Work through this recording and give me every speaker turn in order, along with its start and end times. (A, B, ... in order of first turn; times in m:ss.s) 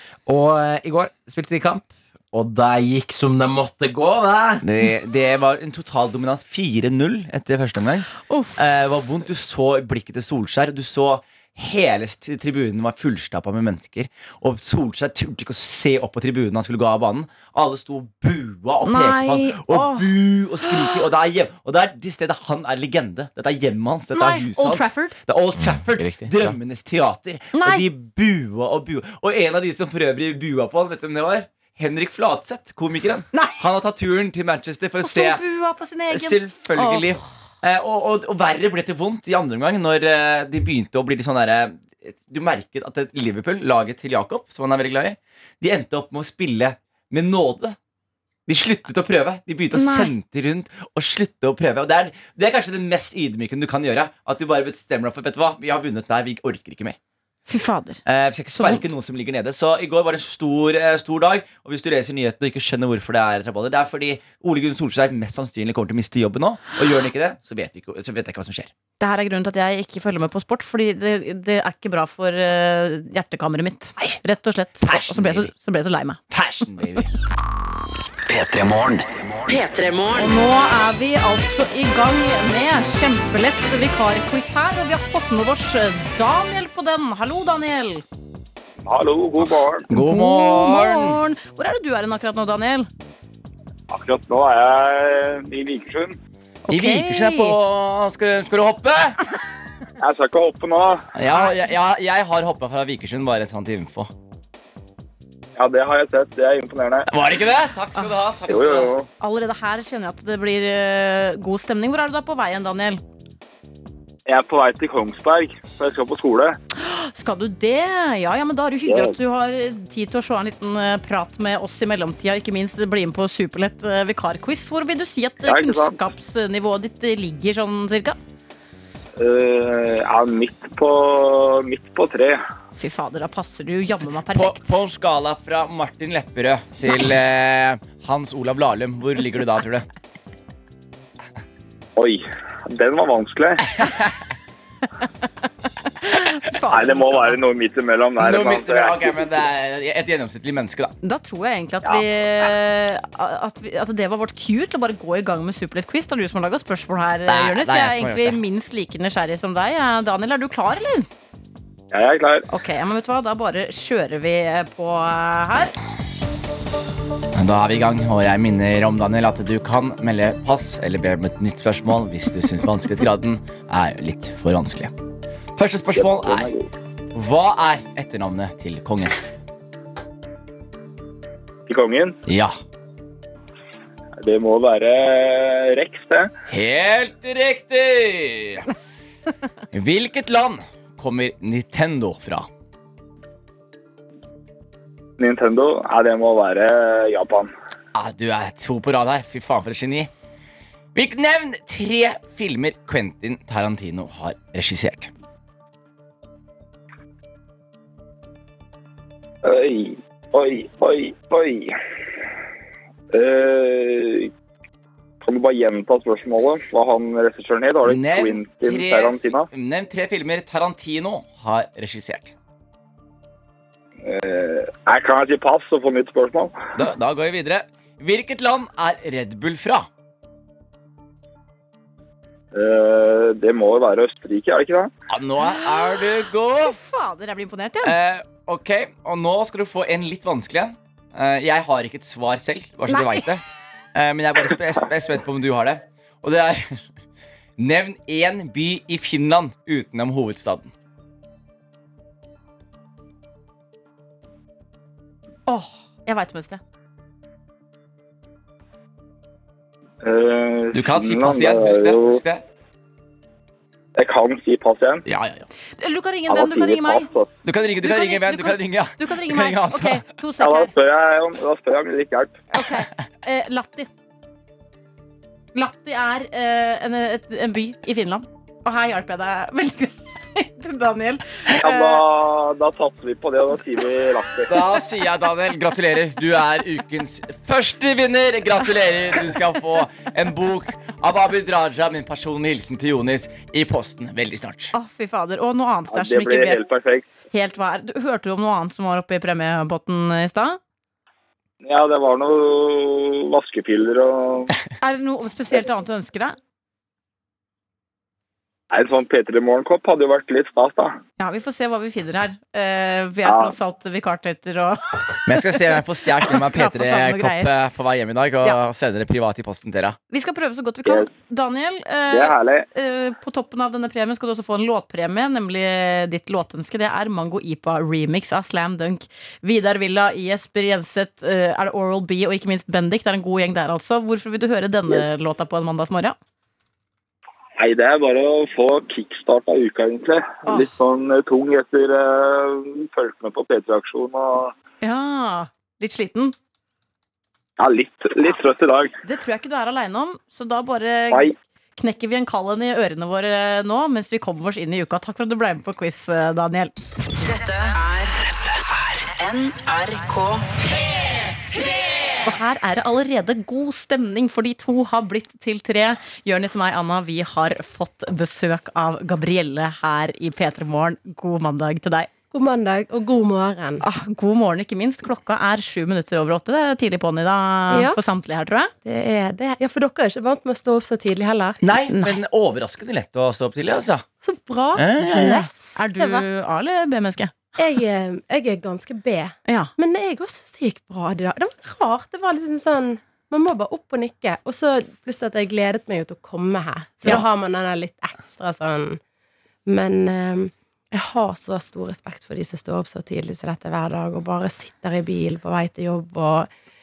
0:00.2-0:04.6 A
0:04.6-0:35.4 B
0:08.3-0:08.6 C
0:18.8-0:21.0 C
0:24.1-0:25.2 C
0:25.6-0:26.6 A
0:27.5-0:27.8 C
0:33.3-0:33.6 C
0:35.0-0:37.2 C
0:36.1-0:47.8 B
0:48.5-0:57.0 B
0:49.7-0:50.1 C
0:57.5-0:58.0 C
0:58.0-1:08.7 B
0:58.5-0:58.8 C
1:09.0-1:16.2 C
1:14.8-1:15.5 B
1:16.3-1:17.1 B
1:18.2-1:20.2 D
1:20.2-1:28.0 C
1:28.8-1:29.8 E
1:29.9-1:31.2 B
1:29.9-1:32.9 C
1:33.9-1:36.2 E
1:36.7-1:37.6 C
1:36.7-1:39.2 B
1:40.0-1:41.0 E
1:41.1-1:44.1 B
1:45.6-1:47.1 E
1:47.1-1:48.9 B
1:48.5-1:49.1 E
1:49.2-1:53.0 C
1:54.3-1:56.6 E
1:56.8-2:08.2 C
1:58.8-1:59.1 E
2:05.4-2:06.0 E
2:09.2-2:12.4 E
2:12.8-2:14.7 C
2:14.3-2:19.8 B
2:22.0-2:23.6 E
2:26.0-2:27.4 C
2:26.7-2:29.3 E
2:28.2-2:30.9 B
2:31.0-2:41.1 C
2:37.3-2:38.4 B
2:41.9-2:42.4 E
2:42.5-2:45.7 C
2:47.3-2:54.9 B
2:55.6-2:56.5 B
2:55.9-2:56.7 E
2:57.1-2:59.2 B
3:01.7-3:02.2 E
3:02.3-3:02.6 B
3:04.2-3:06.3 E
3:06.5-3:08.7 B
3:09.7-3:12.5 B
3:15.2-3:17.5 E
3:17.9-3:20.1 B
3:20.9-3:25.1 B
3:29.4-3:31.8 E
3:33.1-3:34.3 E
3:35.2-3:39.5 E
3:37.8-3:42.3 B
3:44.0-3:46.6 E
3:46.8-3:49.9 B
3:52.5-3:54.9 E
3:55.1-3:56.8 B
3:55.4-3:58.0 C
3:57.8-4:03.4 B
4:02.9-4:03.3 C
4:03.9-4:06.8 B
4:07.6-4:10.7 B
4:15.5-4:16.6 C
4:20.0-4:22.2 E
4:20.7-4:22.4 B
4:24.0-4:25.0 E
4:25.0-4:25.4 B
4:25.8-4:27.1 C
4:26.3-4:27.3 E
4:27.4-4:30.0 B
4:27.8-4:30.7 C
4:30.4-4:32.4 E
4:32.5-4:33.9 C
4:35.5-4:42.0 C
4:41.6-4:44.5 E
4:44.5-4:54.7 B
4:54.7-4:56.6 C
4:55.9-4:57.1 E
4:57.3-5:00.6 C
5:01.6-5:04.6 E
5:04.8-5:06.4 C
5:08.7-5:11.0 E
5:11.2-5:15.5 C
5:13.2-5:13.5 E
5:15.2-5:20.0 B
5:16.2-5:17.5 C
5:20.1-5:36.2 C
5:22.1-5:22.7 E
5:37.6-5:44.5 E
5:44.8-5:46.3 C
5:47.6-5:48.9 E
5:49.0-5:56.7 C
5:57.3-5:57.8 D
5:59.2-5:59.6 D
6:02.2-6:12.1 C
6:12.3-6:13.8 F
6:13.8-6:18.7 C
6:17.7-6:18.0 F
6:18.8-6:21.6 F
6:21.6-6:24.0 B
6:21.9-6:22.2 C
6:24.2-6:26.2 F
6:24.8-6:25.5 B
6:25.8-6:27.5 C
6:27.6-6:39.0 F
6:29.5-6:29.7 C
6:39.6-6:46.5 F